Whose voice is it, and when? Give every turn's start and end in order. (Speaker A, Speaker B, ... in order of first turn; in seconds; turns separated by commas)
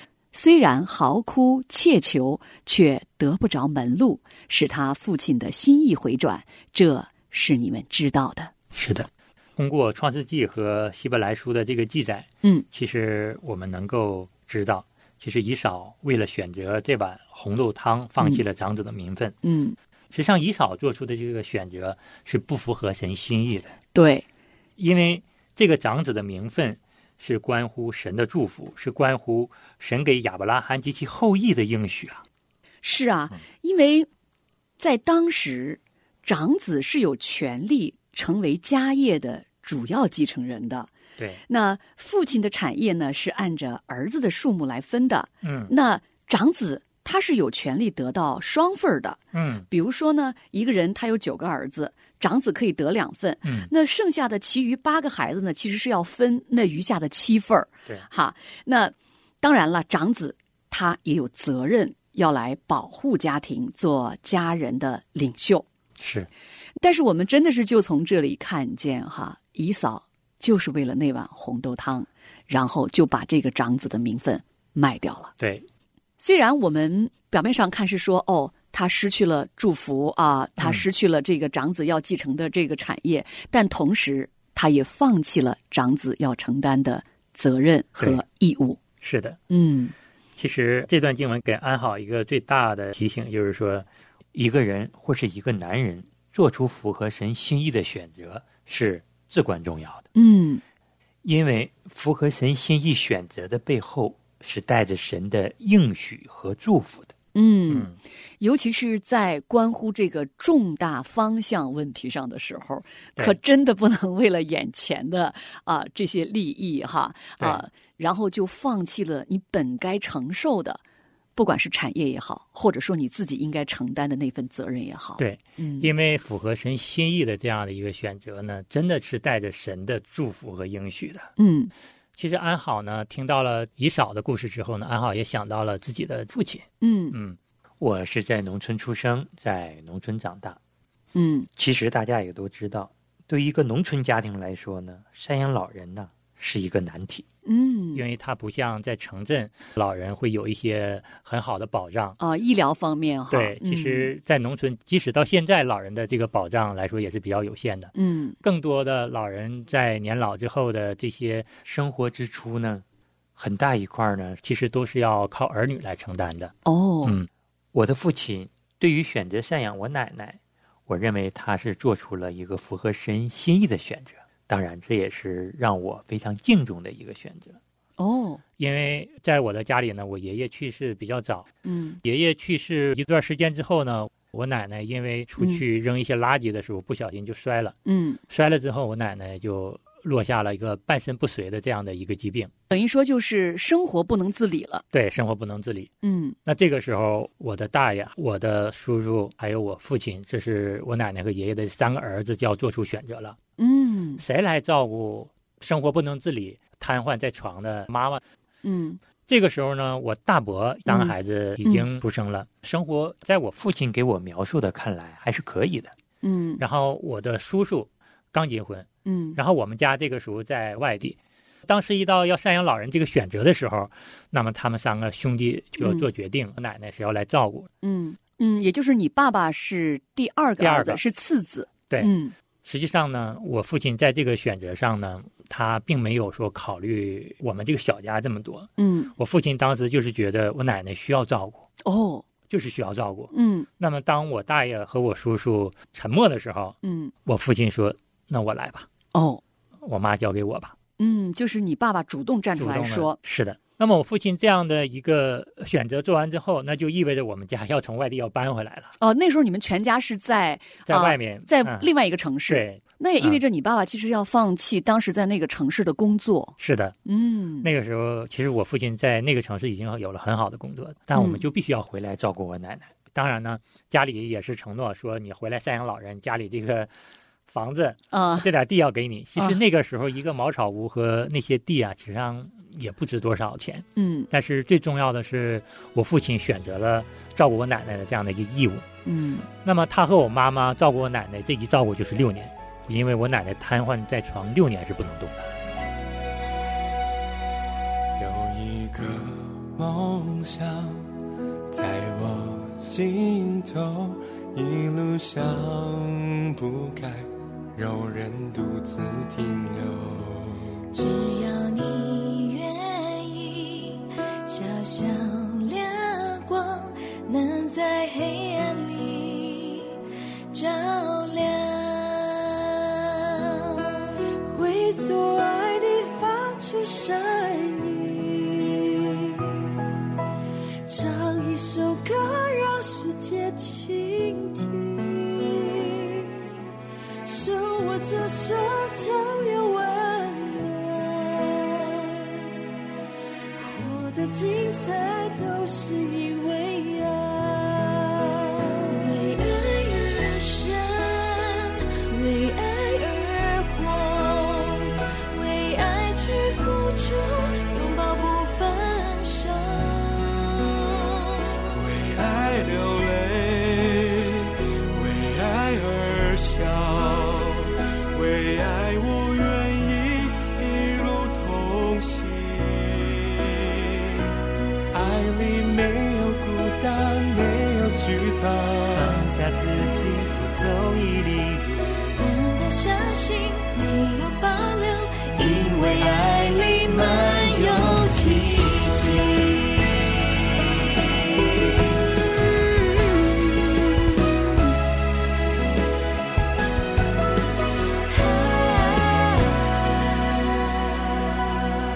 Speaker A: 0.3-8.5, Speaker B: 8.7-19.4, Speaker A: 19.4-19.8, Speaker B: 20.1-23.7, Speaker A: 23.9-24.2, Speaker B: 24.8-32.2, Speaker A: 32.8-34.1, Speaker A: 34.8-40.9, Speaker A: 41.5-65.7, Speaker B: 45.4-45.7, Speaker B: 49.3-49.7, Speaker B: 53.4-53.7, Speaker B: 66.0-66.3, Speaker A: 66.8-75.3, Speaker B: 75.4-75.7, Speaker A: 76.2-88.8, Speaker B: 89.0-89.4, Speaker A: 89.5-89.9, Speaker B: 90.3-100.0, Speaker A: 100.1-100.6, Speaker B: 101.2-107.1, Speaker A: 107.3-107.9, Speaker B: 107.7-108.0, Speaker A: 108.4-120.8, Speaker A: 121.3-125.9, Speaker B: 125.2-131.3, Speaker A: 131.4-131.7, Speaker B: 132.2-140.6, Speaker A: 136.8-137.2, Speaker A: 141.1-141.5, Speaker B: 141.6-147.2, Speaker A: 147.4-148.0, Speaker B: 147.9-152.2, Speaker A: 152.2-154.1, Speaker B: 153.3-162.8, Speaker A: 157.9-158.4, Speaker B: 163.4-177.6, Speaker A: 166.7-167.2, Speaker A: 178.0-178.4, Speaker B: 178.6-181.5, Speaker A: 181.6-182.0, Speaker B: 182.0-187.8, Speaker A: 187.8-188.2, Speaker B: 188.3-192.5, Speaker A: 192.7-194.8, Speaker B: 194.9-195.9, Speaker A: 196.0-196.4, Speaker B: 196.4-203.4, Speaker A: 203.6-204.2, Speaker B: 204.2-208.2, Speaker A: 208.6-209.0, Speaker B: 209.3-215.9, Speaker A: 210.9-211.1, Speaker A: 216.2-216.6, Speaker B: 216.6-227.7, Speaker A: 219.0-219.4, Speaker A: 225.8-226.1, Speaker A: 227.8-232.3, Speaker B: 230.6-231.0, Speaker B: 231.9-241.7, Speaker A: 238.8-239.1, Speaker A: 241.8-242.2, Speaker B: 242.5-248.9, Speaker A: 243.3-243.7, Speaker A: 246.8-247.1, Speaker A: 249.1-249.4, Speaker B: 249.8-250.7, Speaker A: 251.0-253.2, Speaker B: 252.6-258.9, Speaker A: 259.0-267.7, Speaker B: 260.9-261.9, Speaker B: 262.5-263.4, Speaker B: 266.6-266.9, Speaker B: 267.6-276.9, Speaker A: 271.1-271.4, Speaker B: 277.5-288.9, Speaker A: 278.1-278.5, Speaker A: 284.0-284.3, Speaker A: 289.1-289.5, Speaker B: 289.6-295.5, Speaker C: 298.2-301.1, Speaker C: 301.7-310.7, Speaker D: 310.9-320.0, Speaker D: 320.5-324.1, Speaker E: 324.4-329.7, Speaker E: 330.8-336.3, Speaker E: 337.2-342.5, Speaker E: 343.6-348.7, Speaker D: 348.9-361.6, Speaker C: 361.7-374.3, Speaker C: 374.9-379.3, Speaker B: 379.1-381.5, Speaker C: 381.7-382.0, Speaker D: 382.1-389.9, Speaker D: 398.1-399.6